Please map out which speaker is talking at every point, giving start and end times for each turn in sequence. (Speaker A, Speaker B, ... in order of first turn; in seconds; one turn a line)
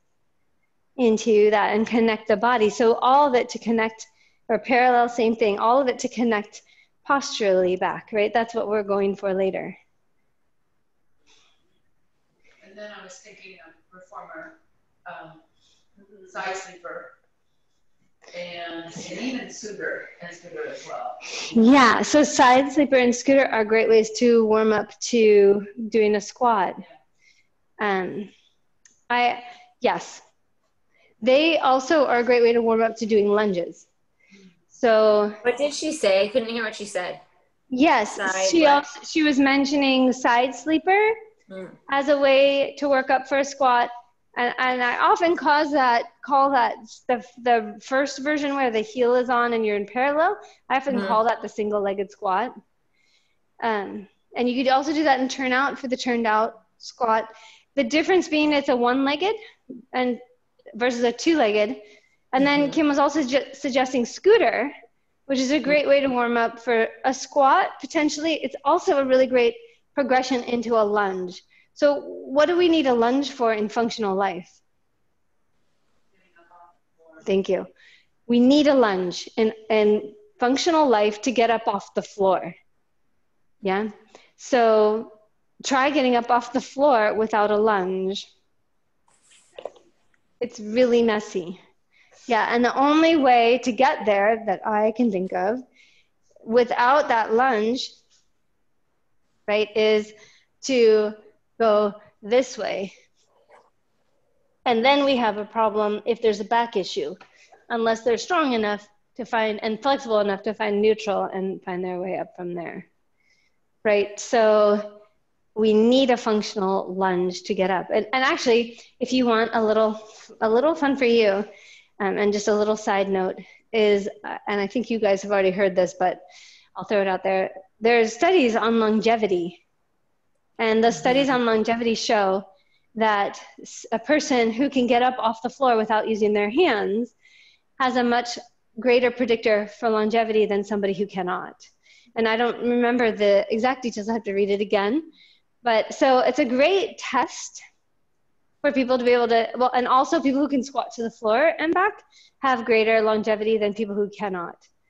Speaker A: 1.0-9.8
Speaker B: 12.6-15.4
Speaker B: 16.3-17.1
Speaker B: 18.3-21.6
Speaker A: 21.5-26.8
Speaker A: 27.8-28.3
Speaker A: 29.1-30.2
Speaker A: 31.2-33.9
Speaker A: 34.7-35.4
Speaker C: 35.4-37.2
Speaker A: 37.7-41.1
Speaker C: 38.2-38.9
Speaker C: 41.5-41.8
Speaker A: 41.9-52.5
Speaker C: 50.9-51.2
Speaker A: 53.6-59.4
Speaker A: 59.9-60.2
Speaker A: 60.8-61.8
Speaker A: 62.3-64.7
Speaker A: 65.3-74.6
Speaker B: 76.5-77.2
Speaker A: 77.2-77.7
Speaker A: 78.3-82.5
Speaker A: 83.6-88.3
Speaker A: 90.4-91.6
Speaker A: 92.3-95.6
Speaker A: 96.4-97.9
Speaker A: 99.5-102.9
Speaker A: 104.7-107.2
Speaker A: 107.7-112.9
Speaker A: 113.8-115.0
Speaker A: 115.6-121.5
Speaker A: 122.0-126.2
Speaker A: 126.8-129.6
Speaker A: 130.6-132.4
Speaker A: 133.0-137.1
Speaker A: 137.8-145.1
Speaker A: 145.6-147.6
Speaker A: 148.6-154.7